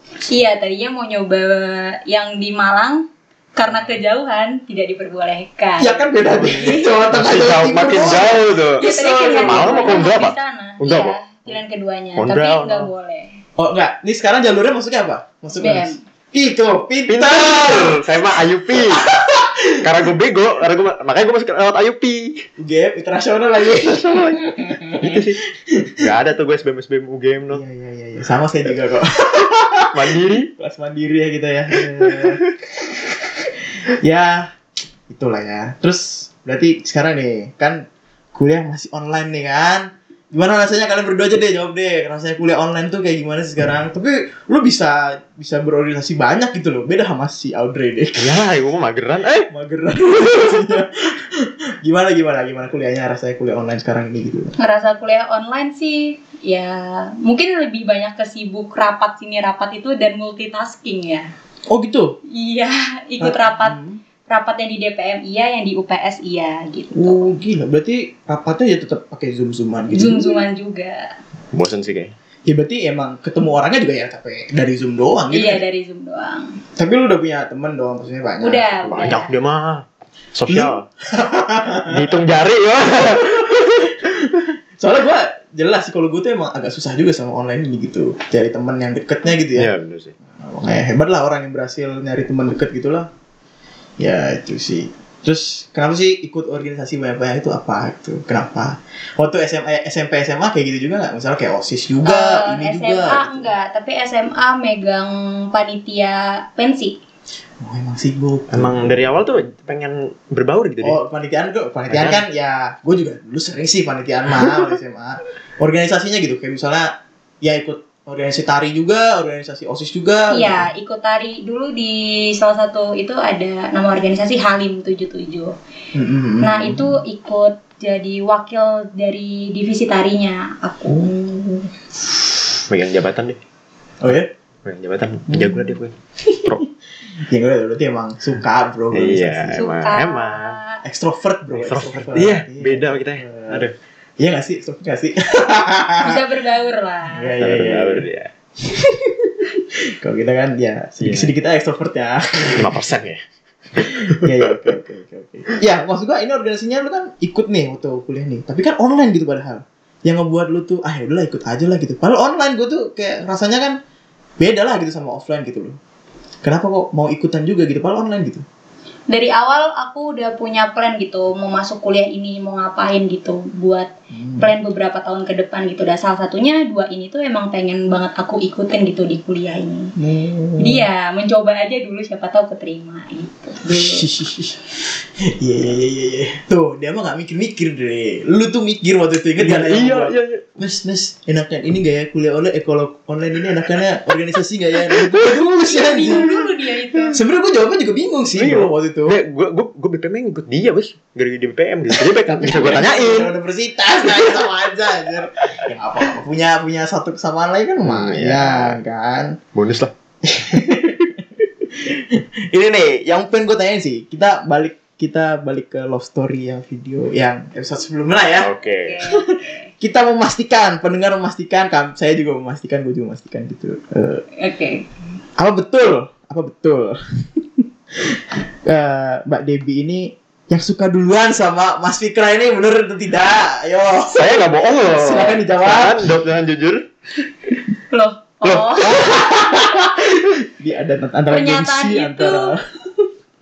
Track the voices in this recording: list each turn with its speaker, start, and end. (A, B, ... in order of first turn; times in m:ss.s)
0:00.3-0:06.9 A
0:03.7-0:04.0 B
0:05.8-0:10.0 B
0:06.5-0:11.2 C
0:08.8-0:13.4 A
0:12.2-0:12.9 C
0:13.6-0:19.8 B
0:15.6-0:16.0 A
0:17.1-0:19.0 C
0:19.8-0:22.4 C
0:22.6-0:26.0 B
0:23.7-0:25.4 C
0:26.0-0:27.6 C
0:27.5-0:32.4 B
0:29.9-0:30.5 C
0:32.0-0:32.5 C
0:34.0-0:34.5 B
0:35.1-0:48.4 B
0:48.2-0:49.5 C
0:49.5-0:54.6 B
0:54.6-1:01.3 A
1:01.7-1:02.2 B
1:02.3-1:07.3 A
1:03.2-1:04.0 B
1:06.9-1:10.4 B
1:09.9-1:11.1 A
1:11.5-1:12.1 C
1:12.5-1:15.6 B
1:15.3-1:16.6 A
1:16.8-1:19.1 B
1:18.4-1:19.3 A
1:18.8-1:20.9 C
1:20.5-1:22.2 B
1:21.8-1:23.9 C
1:23.0-1:29.7 B
1:29.5-1:30.1 C
1:30.4-1:33.1 B
1:34.0-1:43.5 B
1:42.0-1:47.0 A
1:47.6-1:49.0 B
1:48.5-1:51.0 C
1:50.8-1:56.9 B
1:51.9-1:52.2 C
1:57.4-2:00.7 B
2:00.3-2:05.5 A
2:05.9-2:07.0 B
2:06.4-2:11.1 A
2:10.8-2:11.7 B
2:12.7-2:13.4 C
2:14.0-2:14.3 B
2:14.6-2:16.6 C
2:15.3-2:15.7 B
2:16.3-2:16.6 B
2:17.3-2:19.6 B
2:18.9-2:20.6 C
2:19.6-2:20.8 A
2:20.8-2:23.7 B
2:21.6-2:23.7 C
2:24.2-2:26.2 B
2:26.0-2:27.3 A
2:27.1-2:28.1 B
2:27.4-2:28.3 C
2:28.6-2:32.8 B
2:31.0-2:31.3 C
2:32.5-2:33.2 C
2:33.8-2:34.7 C
2:33.8-2:43.8 B
2:44.4-2:45.8 B
2:46.4-2:48.4 B
2:49.1-2:59.9 A
2:54.1-2:54.5 B
3:00.0-3:00.9 B
3:00.6-3:04.0 A
3:03.6-3:16.5 B
3:09.4-3:10.4 C
3:14.9-3:15.3 C
3:15.5-3:17.2 A
3:17.0-3:19.2 B
3:18.3-3:23.3 C
3:21.9-3:29.4 B
3:24.0-3:24.5 C
3:27.8-3:28.8 C
3:29.5-3:29.9 C
3:30.2-3:38.5 B
3:38.4-3:39.0 C
3:38.8-3:39.7 A
3:39.1-3:44.2 B
3:44.4-3:44.8 A
3:45.4-3:56.1 B
3:54.0-3:56.8 C
3:57.9-3:59.1 A
3:58.4-3:59.4 C
3:58.8-4:03.0 B
4:01.3-4:02.5 A